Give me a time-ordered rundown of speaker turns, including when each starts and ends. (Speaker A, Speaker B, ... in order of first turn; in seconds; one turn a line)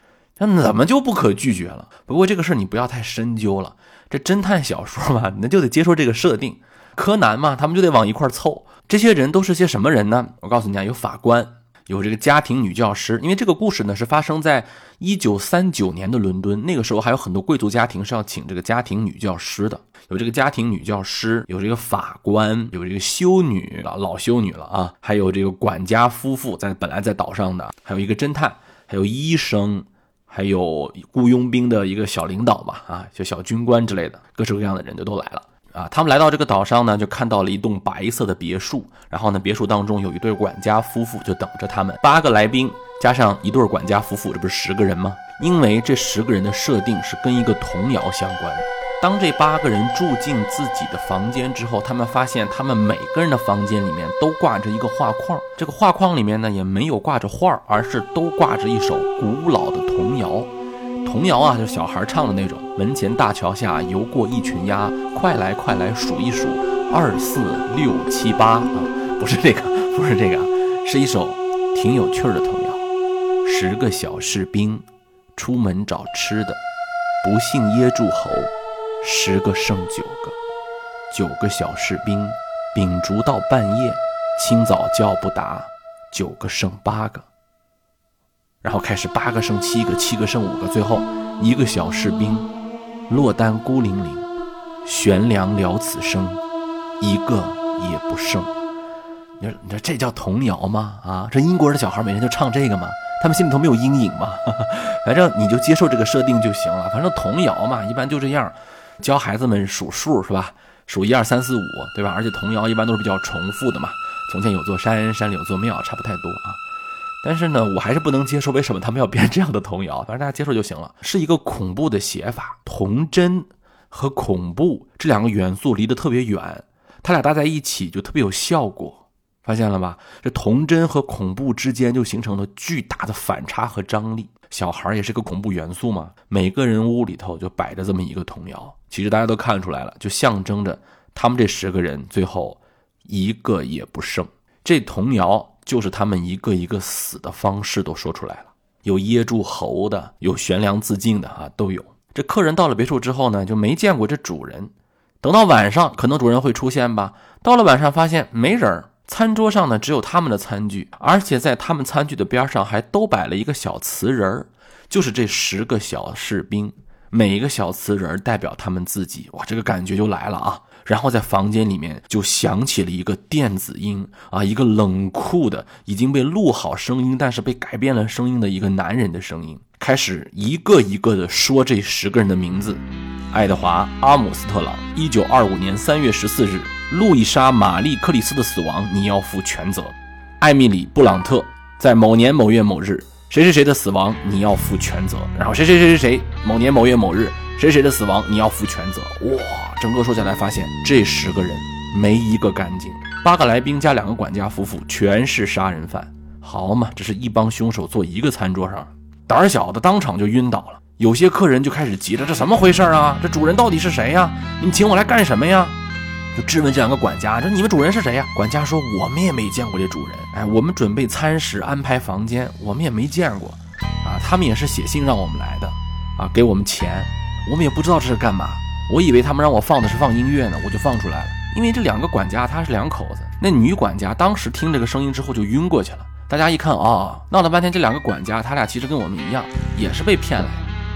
Speaker A: 0.4-60.5
Speaker A: 61.0-72.8
Speaker A: 73.4-74.8
Speaker A: 75.3-76.6
Speaker A: 77.2-80.3
Speaker A: 81.1-87.3
Speaker A: 88.6-92.5
Speaker A: 93.1-94.3
Speaker A: 94.8-96.4
Speaker A: 97.0-98.5
Speaker A: 99.4-116.6
Speaker A: 117.2-215.8
Speaker A: 216.3-240.7